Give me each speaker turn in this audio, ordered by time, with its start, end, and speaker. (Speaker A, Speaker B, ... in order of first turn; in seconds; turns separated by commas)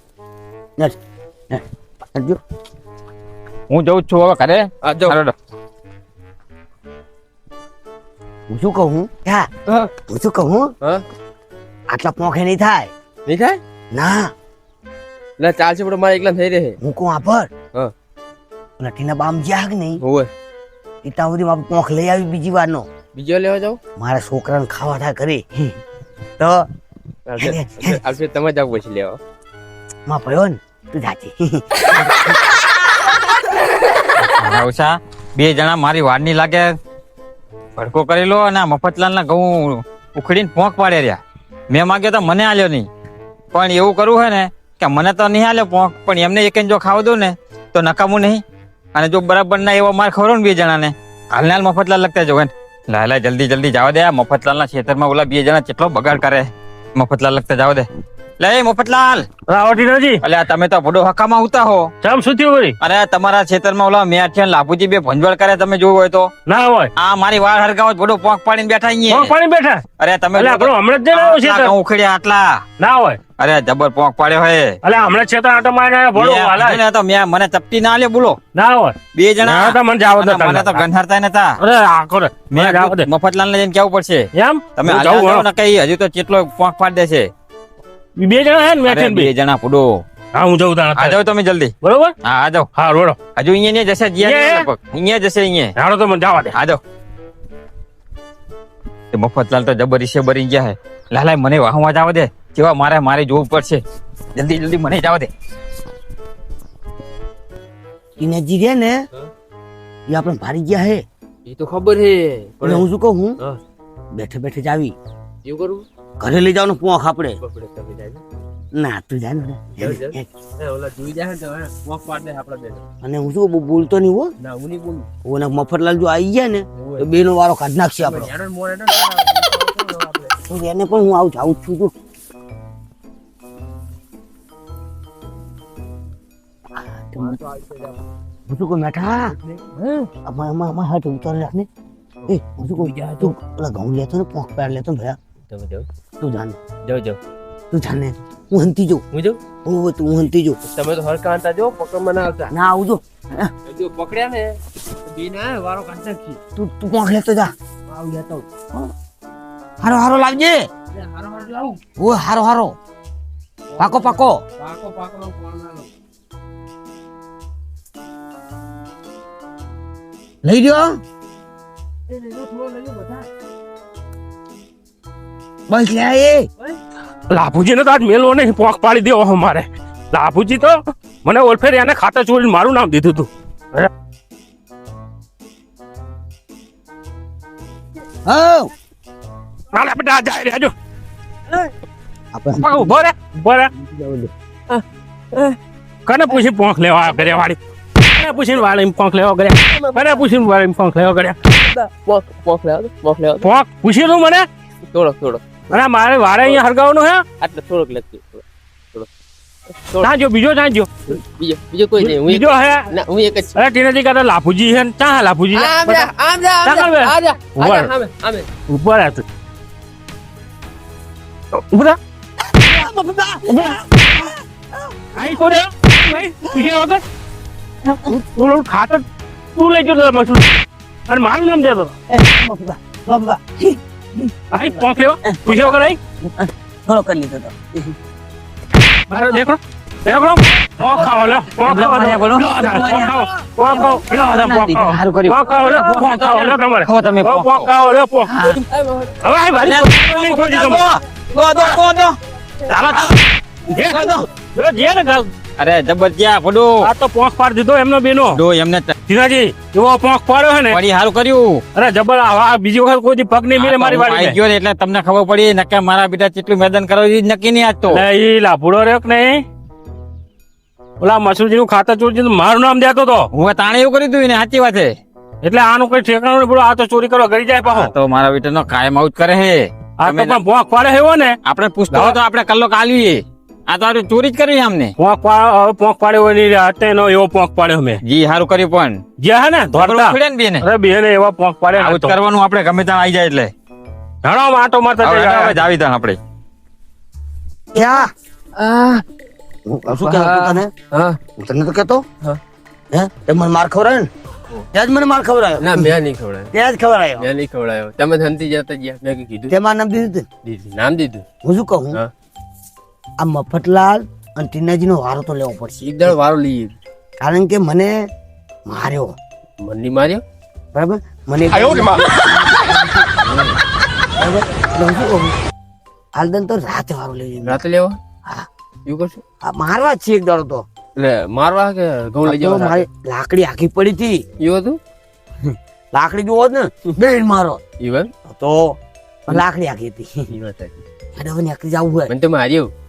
Speaker A: 2.1-2.4, Speaker B: 3.7-5.3, Speaker C: 4.8-5.2, Speaker A: 8.5-9.5, Speaker A: 10.1-10.7, Speaker A: 11.9-12.9, Speaker C: 13.3-13.6, Speaker A: 13.9-14.3, Speaker C: 15.4-16.8, Speaker A: 16.8-17.5, Speaker A: 18.8-20.0, Speaker C: 20.0-20.3, Speaker A: 21.0-22.9, Speaker C: 23.1-23.8, Speaker A: 24.0-25.8, Speaker A: 26.4-26.7, Speaker C: 27.3-29.2, Speaker A: 27.4-28.0, Speaker A: 30.1-32.4, Speaker B: 34.2-36.7, Speaker B: 37.8-42.9, Speaker B: 43.5-48.4, Speaker B: 49.0-57.9, Speaker B: 58.4-59.3, Speaker D: 59.5-60.2, Speaker B: 60.2-61.9, Speaker D: 62.0-62.8, Speaker B: 62.8-66.3, Speaker D: 66.5-66.9, Speaker B: 67.0-69.3, Speaker D: 69.1-69.8, Speaker B: 70.0-72.6, Speaker D: 70.3-71.8, Speaker D: 72.8-73.2, Speaker B: 73.4-74.8, Speaker D: 74.8-76.8, Speaker B: 76.2-78.4, Speaker D: 78.5-80.9, Speaker B: 79.1-81.6, Speaker D: 81.6-83.1, Speaker B: 82.5-87.3, Speaker D: 84.3-85.5, Speaker D: 88.2-89.3, Speaker B: 88.9-89.9, Speaker D: 90.3-91.2, Speaker B: 91.0-91.7, Speaker D: 91.8-92.1, Speaker B: 92.2-92.7, Speaker D: 92.7-93.2, Speaker B: 93.4-95.7, Speaker D: 94.2-94.7, Speaker D: 95.8-96.6, Speaker B: 96.5-96.8, Speaker B: 99.1-103.8, Speaker B: 104.3-105.3, Speaker A: 108.2-109.0, Speaker A: 110.1-111.0, Speaker C: 111.5-112.9, Speaker A: 112.6-113.4, Speaker A: 114.1-115.0, Speaker C: 115.5-115.9, Speaker A: 116.2-117.4, Speaker C: 117.4-118.2, Speaker A: 118.7-120.3, Speaker C: 119.8-122.8, Speaker A: 123.0-124.3, Speaker C: 124.4-125.1, Speaker A: 125.2-128.3, Speaker C: 126.8-127.1, Speaker C: 128.1-130.4, Speaker A: 130.5-131.9, Speaker A: 136.8-137.4, Speaker C: 137.2-138.0, Speaker A: 138.5-139.4, Speaker C: 139.4-140.1, Speaker A: 140.2-141.7, Speaker C: 142.2-143.3, Speaker A: 142.3-145.2, Speaker C: 145.5-145.9, Speaker A: 146.2-146.6, Speaker C: 146.8-147.2, Speaker A: 147.7-149.0, Speaker C: 149.1-149.4, Speaker A: 149.6-150.6, Speaker C: 150.7-152.5, Speaker A: 152.5-153.5, Speaker C: 153.7-156.4, Speaker A: 156.6-157.5, Speaker C: 157.9-158.5, Speaker A: 159.8-160.7, Speaker C: 160.9-161.8, Speaker A: 162.0-162.8, Speaker C: 163.8-165.9, Speaker A: 163.8-164.4, Speaker A: 170.4-171.0, Speaker C: 172.1-173.3, Speaker A: 175.7-176.5, Speaker D: 177.3-183.9, Speaker A: 188.2-188.7, Speaker D: 189.7-190.7, Speaker A: 192.3-193.0, Speaker D: 192.6-193.7, Speaker A: 193.8-194.3, Speaker C: 194.7-195.6, Speaker D: 196.1-201.4, Speaker C: 199.7-200.3, Speaker C: 201.5-203.5, Speaker D: 203.4-204.5, Speaker C: 204.9-205.5, Speaker D: 205.7-207.2, Speaker C: 207.4-209.1, Speaker D: 210.0-210.9, Speaker C: 211.1-213.6, Speaker D: 212.0-212.9, Speaker D: 213.6-216.1, Speaker C: 215.5-218.5, Speaker D: 216.6-217.9, Speaker D: 218.7-219.2, Speaker D: 221.6-222.0, Speaker A: 222.5-224.4, Speaker D: 225.2-227.0, Speaker A: 227.9-228.2, Speaker D: 228.1-229.0, Speaker D: 229.6-231.9, Speaker A: 232.1-234.3, Speaker D: 234.5-236.0, Speaker A: 235.3-237.9, Speaker D: 239.1-248.6, Speaker B: 241.6-243.1, Speaker A: 242.6-243.2, Speaker B: 243.7-247.7, Speaker C: 248.7-249.2, Speaker D: 249.2-250.8, Speaker B: 249.7-253.1, Speaker D: 253.7-255.3, Speaker B: 255.6-256.8, Speaker D: 256.8-258.4, Speaker B: 258.3-258.9, Speaker D: 259.1-260.8, Speaker B: 260.7-261.6, Speaker D: 261.8-264.4, Speaker B: 263.6-268.0, Speaker D: 267.9-269.4, Speaker D: 271.0-273.3, Speaker B: 273.3-274.9, Speaker D: 275.4-277.9, Speaker B: 277.6-280.4, Speaker D: 280.0-281.4, Speaker B: 281.4-284.9, Speaker D: 281.9-282.2, Speaker D: 285.0-288.0, Speaker B: 288.0-289.0, Speaker D: 289.2-292.2, Speaker B: 289.7-290.6, Speaker B: 291.7-293.5, Speaker D: 294.2-295.6, Speaker B: 295.0-296.2, Speaker A: 297.7-298.1, Speaker C: 298.6-299.0, Speaker A: 299.7-300.7, Speaker C: 300.0-301.2, Speaker A: 301.4-302.0, Speaker A: 302.9-304.1, Speaker A: 304.7-305.9, Speaker C: 305.6-306.5, Speaker A: 306.5-307.3, Speaker C: 307.2-309.5, Speaker A: 309.5-310.3, Speaker C: 310.4-311.2, Speaker A: 311.4-312.0, Speaker A: 313.2-316.1, Speaker C: 315.8-316.8, Speaker A: 317.2-317.9, Speaker A: 318.7-319.1, Speaker C: 319.6-320.2, Speaker A: 320.7-323.3, Speaker A: 324.2-325.4, Speaker A: 326.1-327.6, Speaker C: 327.4-328.0, Speaker C: 328.9-329.2, Speaker A: 329.4-330.6, Speaker C: 331.0-332.9, Speaker A: 332.3-334.2, Speaker C: 334.4-334.8, Speaker A: 335.4-337.6, Speaker C: 337.8-338.1, Speaker A: 338.3-340.3, Speaker C: 340.3-340.8, Speaker A: 341.2-342.1, Speaker C: 342.1-342.7